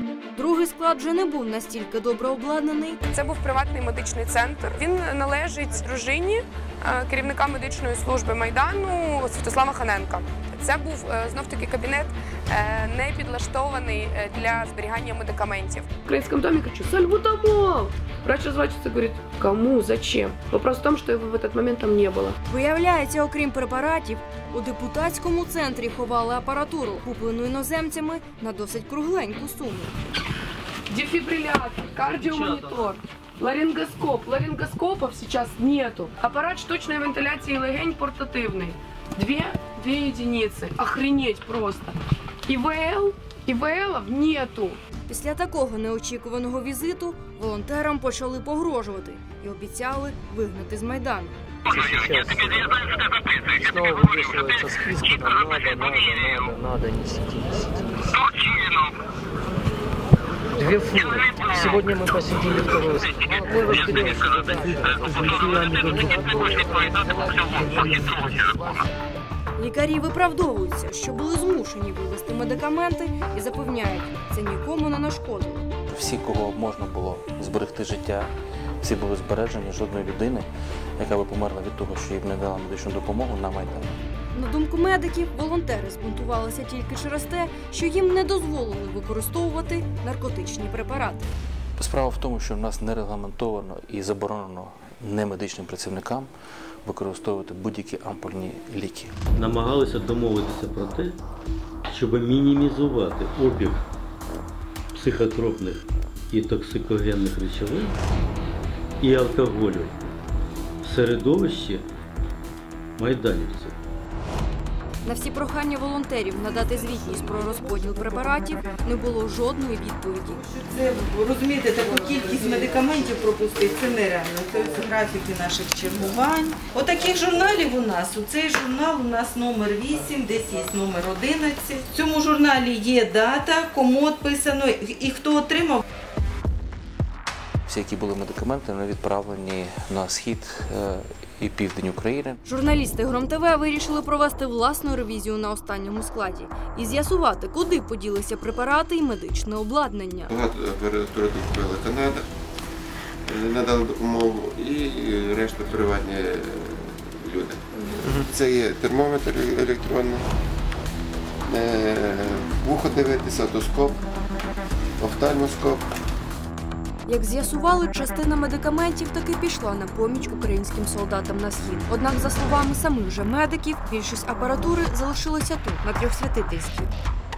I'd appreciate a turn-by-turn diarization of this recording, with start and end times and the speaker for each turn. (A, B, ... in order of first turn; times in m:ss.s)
0:00.4-0:03.0 A
0:03.1-0:15.9 B
0:16.0-0:22.4 C
0:22.5-0:29.9 A
0:30.9-0:41.9 C
0:42.5-0:44.8 C
0:45.1-0:51.3 A
0:51.7-0:52.7 D
0:53.6-0:58.1 D
1:00.6-1:08.6 D
1:09.6-1:15.6 A
1:15.9-1:24.0 E
1:24.3-1:31.3 A
1:31.8-1:36.3 E
1:36.8-1:39.1 E
1:39.3-1:41.2 F
1:41.9-1:43.8 F
1:44.9-1:47.9 F
1:49.0-1:50.0 F
1:50.8-1:51.9 F
1:53.0-1:53.8 F
1:55.0-2:00.4 A
2:00.5-2:15.8 G
2:17.6-2:22.4 E
2:22.4-2:30.3 A
2:30.3-2:32.2 H
2:33.2-2:40.2 H
2:41.5-2:44.0 H
2:45.0-2:45.8 H
2:47.0-2:56.9 A